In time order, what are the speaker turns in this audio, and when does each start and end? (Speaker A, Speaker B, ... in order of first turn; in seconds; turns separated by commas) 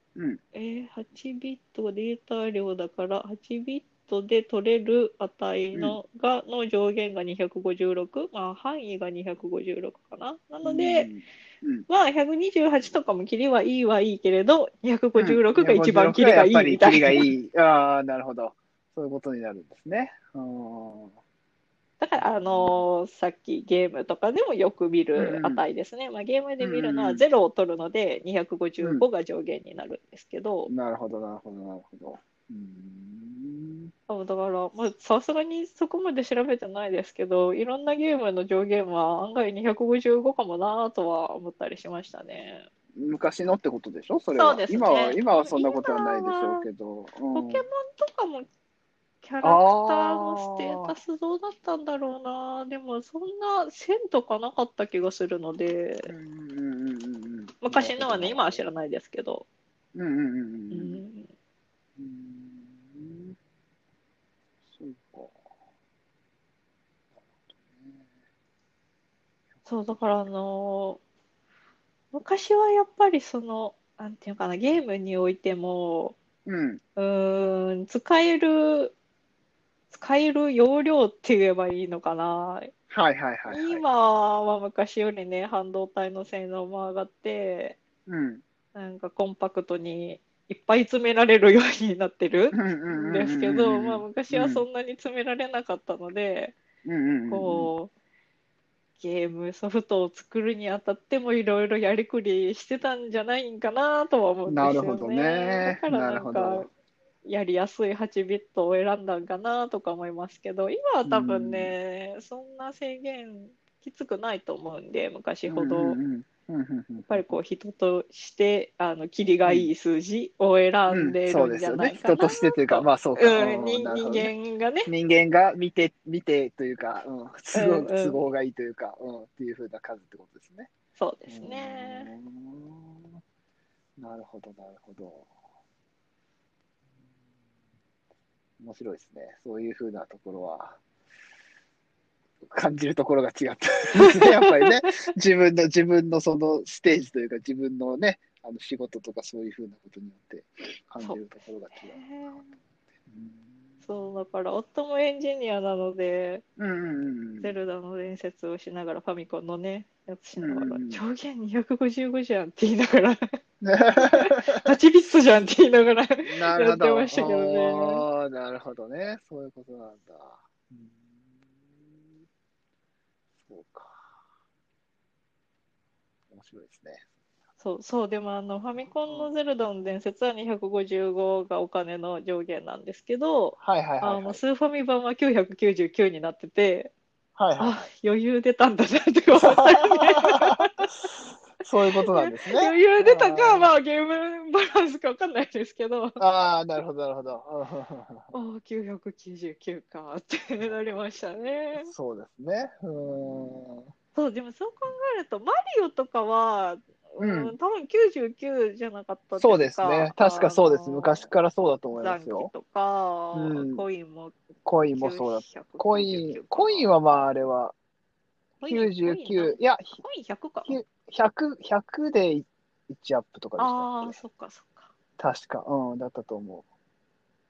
Speaker A: 0.5-11.1, Speaker B: 10.6-11.8, Speaker A: 11.9-17.3, Speaker B: 15.2-21.1, Speaker A: 22.0-30.7, Speaker B: 22.1-22.9, Speaker B: 25.1-25.6, Speaker B: 26.6-27.2, Speaker B: 28.8-29.1, Speaker B: 30.7-33.9, Speaker A: 34.1-42.6, Speaker B: 43.0-47.6, Speaker A: 44.3-46.6, Speaker A: 47.3-48.5, Speaker A: 49.2-56.1, Speaker B: 49.4-50.9, Speaker B: 56.1-58.6, Speaker A: 57.6-59.5, Speaker B: 59.9-61.0, Speaker A: 60.7-61.3, Speaker B: 62.0-63.3, Speaker B: 64.7-65.4, Speaker B: 67.5-68.0, Speaker A: 69.7-71.0, Speaker A: 72.1-76.2, Speaker B: 76.5-76.8, Speaker A: 77.0-78.9, Speaker A: 79.9-82.7, Speaker B: 82.9-83.8, Speaker A: 83.5-87.8, Speaker B: 88.1-88.4, Speaker A: 88.7-96.5, Speaker B: 92.5-94.6, Speaker B: 96.8-97.7, Speaker A: 97.3-97.9, Speaker A: 99.0-106.7, Speaker B: 104.5-106.7, Speaker A: 107.2-116.0, Speaker B: 111.0-111.7, Speaker B: 115.5-117.4, Speaker A: 117.1-124.9, Speaker B: 119.4-119.7, Speaker B: 120.9-124.3, Speaker B: 124.8-130.7, Speaker A: 127.5-128.2, Speaker A: 130.9-132.1, Speaker B: 131.3-133.2, Speaker B: 134.0-135.3, Speaker B: 138.6-140.8, Speaker B: 142.4-152.4, Speaker A: 144.0-144.8, Speaker A: 151.8-152.5, Speaker B: 153.1-153.5, Speaker A: 153.8-156.4, Speaker B: 156.6-157.5, Speaker A: 157.4-163.2, Speaker B: 160.4-161.0, Speaker B: 163.6-164.7, Speaker A: 164.0-168.0, Speaker B: 166.2-171.1, Speaker B: 173.4-174.0, Speaker B: 176.3-177.0, Speaker A: 177.6-186.9, Speaker B: 179.0-179.3, Speaker B: 183.6-184.4, Speaker B: 187.4-187.8, Speaker A: 187.6-190.9, Speaker B: 189.3-190.7, Speaker B: 191.6-193.7, Speaker A: 192.1-196.2, Speaker B: 196.2-198.3, Speaker A: 198.3-201.9, Speaker B: 201.8-203.9, Speaker A: 204.1-211.3, Speaker B: 207.2-207.5, Speaker B: 209.4-212.5, Speaker A: 212.0-214.3, Speaker B: 213.3-213.8, Speaker B: 214.6-217.7, Speaker A: 214.9-216.9, Speaker A: 218.6-220.8, Speaker B: 218.6-220.0, Speaker B: 220.6-224.2, Speaker A: 223.6-224.9, Speaker B: 225.2-226.7